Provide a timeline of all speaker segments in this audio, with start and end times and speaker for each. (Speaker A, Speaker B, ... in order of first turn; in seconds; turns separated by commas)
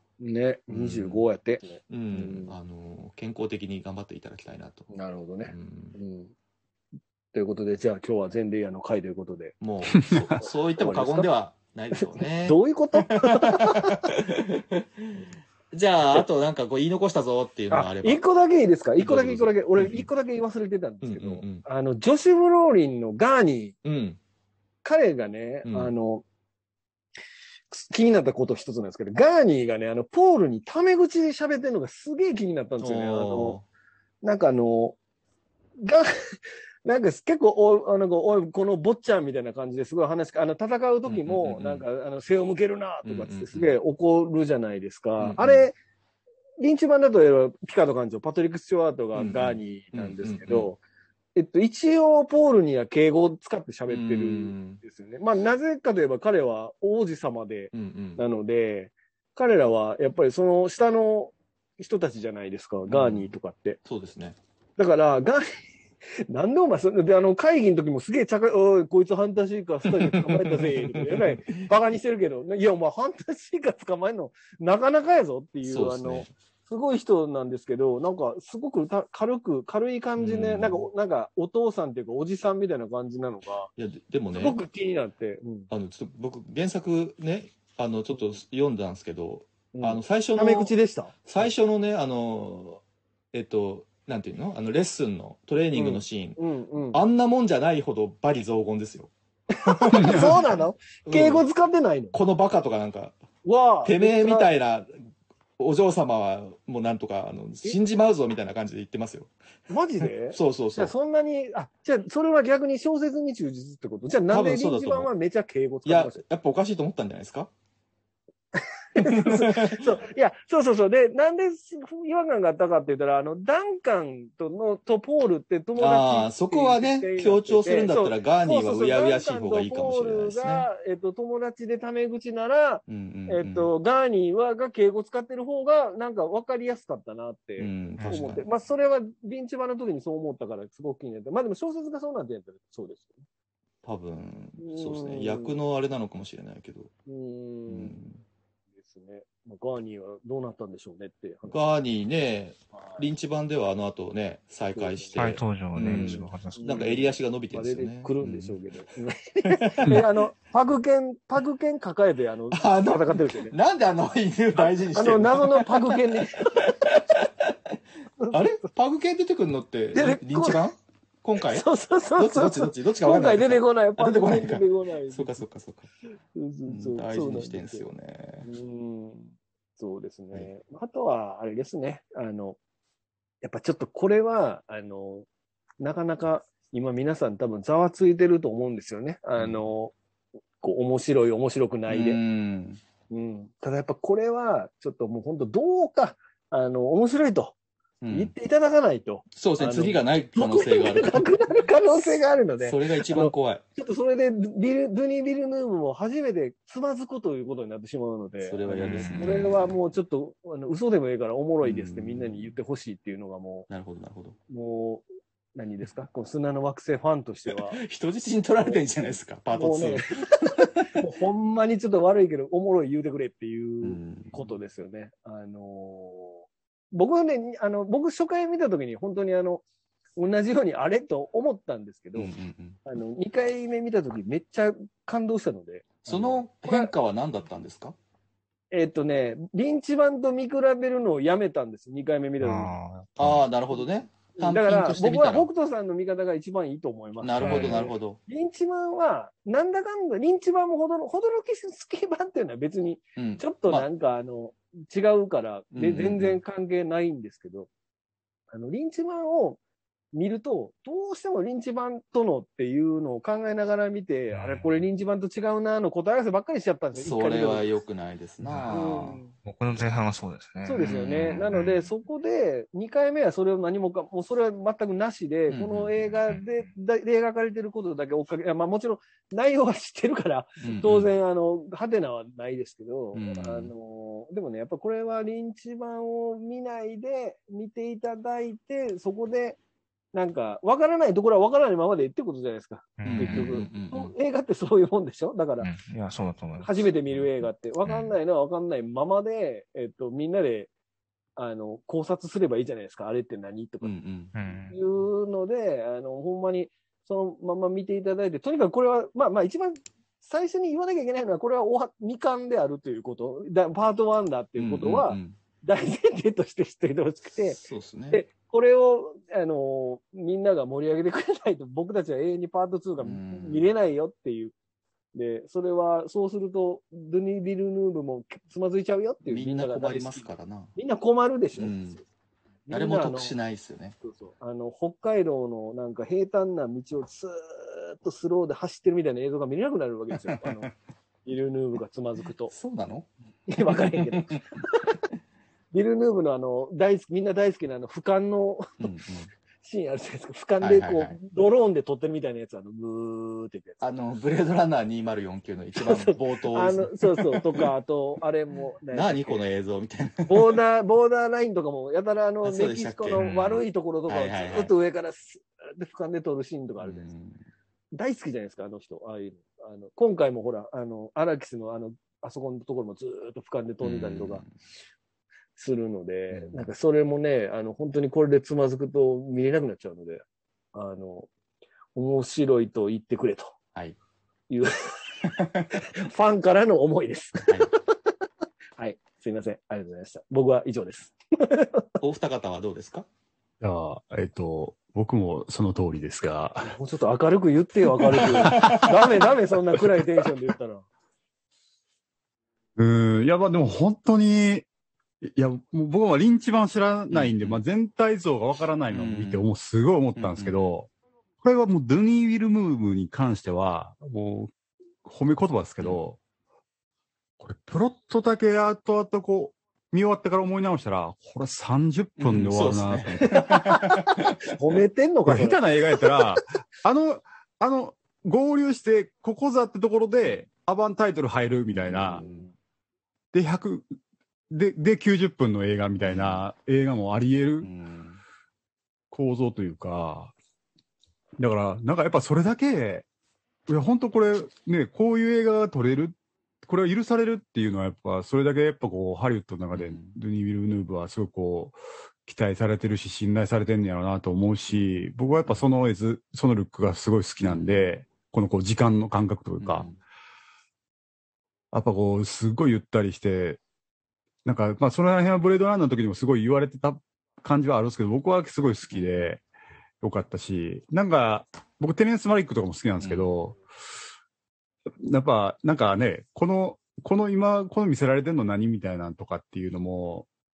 Speaker A: 0.2-2.5, Speaker B: 0.7-1.3, Speaker B: 1.9-4.9, Speaker A: 4.9-6.3, Speaker B: 5.5-6.0, Speaker A: 7.3-9.6, Speaker B: 9.6-18.2, Speaker C: 10.0-10.2, Speaker A: 10.4-11.3, Speaker A: 11.9-14.2, Speaker A: 17.7-23.8, Speaker B: 19.0-20.1, Speaker B: 21.0-21.6, Speaker B: 23.8-24.2, Speaker A: 24.8-26.2, Speaker B: 25.6-25.9, Speaker A: 27.7-33.6, Speaker B: 32.8-33.6, Speaker A: 34.2-35.0, Speaker A: 35.8-45.8, Speaker B: 41.1-41.9, Speaker B: 43.0-43.7, Speaker B: 45.2-45.7, Speaker A: 46.6-50.8, Speaker B: 49.1-50.7, Speaker A: 51.4-63.8, Speaker B: 53.9-54.8, Speaker B: 57.7-58.2, Speaker B: 62.9-63.3, Speaker B: 63.9-64.4, Speaker A: 64.8-65.6, Speaker A: 66.3-83.7, Speaker B: 69.9-71.7, Speaker B: 75.6-76.3, Speaker B: 80.2-80.9, Speaker B: 83.8-84.6, Speaker A: 84.3-85.7, Speaker B: 85.7-90.7, Speaker A: 89.7-91.1, Speaker B: 91.2-92.8, Speaker B: 93.3-96.4, Speaker A: 95.7-97.0, Speaker B: 96.9-99.1, Speaker A: 99.5-102.2, Speaker B: 99.6-100.5, Speaker C: 99.9-100.4, Speaker B: 101.0-101.4, Speaker B: 102.1-103.2, Speaker A: 103.4-104.5, Speaker B: 103.8-105.0, Speaker B: 105.6-109.3, Speaker A: 109.7-116.2, Speaker B: 110.3-110.9, Speaker B: 114.3-115.1, Speaker B: 115.8-117.5, Speaker A: 118.6-143.2, Speaker B: 119.0-119.9, Speaker B: 125.8-130.7, Speaker B: 132.9-133.7, Speaker B: 137.6-138.4, Speaker D: 138.0-138.3, Speaker B: 143.8-146.9, Speaker A: 144.6-145.6, Speaker A: 147.1-148.1, Speaker B: 147.7-148.2, Speaker A: 148.8-151.6, Speaker B: 151.5-158.6, Speaker A: 154.7-155.2, Speaker D: 155.2-156.8, Speaker A: 155.8-163.6, Speaker B: 159.4-160.1, Speaker B: 162.5-167.8, Speaker A: 164.6-166.8, Speaker A: 168.2-168.7, Speaker B: 168.3-175.9, Speaker A: 169.9-170.7, Speaker A: 171.4-175.4, Speaker A: 176.3-177.9, Speaker B: 176.7-178.5, Speaker A: 178.4-182.6, Speaker A: 183.4-185.3, Speaker A: 185.8-189.9, Speaker A: 190.6-192.2, Speaker B: 191.9-192.8, Speaker A: 193.1-197.6, Speaker B: 198.0-198.3, Speaker A: 198.1-213.7, Speaker B: 199.3-201.4, Speaker B: 202.6-203.6, Speaker B: 208.5-209.7, Speaker D: 208.9-209.4, Speaker B: 211.6-212.5, Speaker B: 213.7-214.4, Speaker A: 214.5-217.8, Speaker B: 217.5-220.9, Speaker A: 219.5-229.6, Speaker B: 223.8-224.5, Speaker A: 230.2-232.3, Speaker B: 232.2-232.8, Speaker A: 232.8-236.9, Speaker B: 236.1-237.9, Speaker A: 238.7-242.7, Speaker D: 242.4-243.4, Speaker B: 243.2-245.5, Speaker A: 244.3-257.7, Speaker B: 247.2-248.2, Speaker D: 247.4-247.8, Speaker B: 253.2-253.9, Speaker B: 255.7-256.4, Speaker A: 258.5-259.6, Speaker A: 260.1-267.7, Speaker D: 264.3-264.9, Speaker B: 266.9-269.2, Speaker D: 268.4-268.8, Speaker A: 268.7-269.3, Speaker D: 269.4-271.9, Speaker A: 270.6-289.6, Speaker B: 275.5-275.9, Speaker B: 280.6-281.1, Speaker B: 283.1-283.7, Speaker A: 290.1-295.7, Speaker D: 293.0-293.6, Speaker B: 293.1-294.1, Speaker D: 295.6-297.3, Speaker A: 296.6-300.7, Speaker D: 297.8-298.1, Speaker A: 301.4-303.9, Speaker B: 303.8-304.3, Speaker D: 304.4-304.8, Speaker A: 304.7-317.6, Speaker B: 314.6-315.4, Speaker B: 317.4-318.2, Speaker A: 318.1-324.5, Speaker B: 323.0-323.7, Speaker A: 325.1-331.8, Speaker B: 329.2-330.7, Speaker B: 331.6-332.0, Speaker A: 332.7-333.4, Speaker B: 332.7-334.0, Speaker A: 334.0-340.7, Speaker B: 340.2-340.7, Speaker A: 341.2-342.5, Speaker B: 342.5-343.1, Speaker A: 343.5-345.0, Speaker B: 343.7-344.4, Speaker A: 345.7-348.8, Speaker B: 348.8-349.3, Speaker A: 349.6-353.8, Speaker B: 350.6-351.2, Speaker B: 353.8-357.6, Speaker A: 355.8-359.4, Speaker B: 358.9-360.5, Speaker A: 360.3-367.1, Speaker B: 362.4-364.7, Speaker D: 363.2-363.4, Speaker B: 366.8-367.4, Speaker A: 367.9-374.4, Speaker B: 373.8-374.5, Speaker A: 375.6-380.2, Speaker B: 376.3-376.7, Speaker A: 380.7-381.3, Speaker A: 381.9-383.5, Speaker A: 384.5-385.3, Speaker A: 385.9-387.8, Speaker A: 388.8-392.0, Speaker B: 392.0-393.1, Speaker C: 393.6-396.8, Speaker A: 396.6-400.9, Speaker B: 398.2-399.0, Speaker C: 402.8-404.7, Speaker C: 405.2-410.9, Speaker B: 407.1-407.6, Speaker B: 408.9-409.5, Speaker B: 410.2-410.7, Speaker C: 411.4-414.5, Speaker C: 415.0-416.2, Speaker C: 417.4-423.4, Speaker B: 422.2-424.4, Speaker A: 423.2-426.4, Speaker C: 425.3-432.2, Speaker B: 431.7-432.5, Speaker A: 432.1-432.5, Speaker C: 433.3-433.9, Speaker C: 434.5-437.7, Speaker B: 436.0-436.5, Speaker B: 437.6-438.2, Speaker C: 439.1-440.3, Speaker C: 441.4-443.1, Speaker C: 443.7-459.9, Speaker B: 449.7-450.2, Speaker B: 454.7-455.7, Speaker B: 457.4-457.9, Speaker B: 459.6-460.0, Speaker C: 461.7-463.6, Speaker C: 464.4-469.4, Speaker B: 468.9-469.3, Speaker C: 470.0-473.6, Speaker B: 473.0-473.3, Speaker C: 475.0-480.3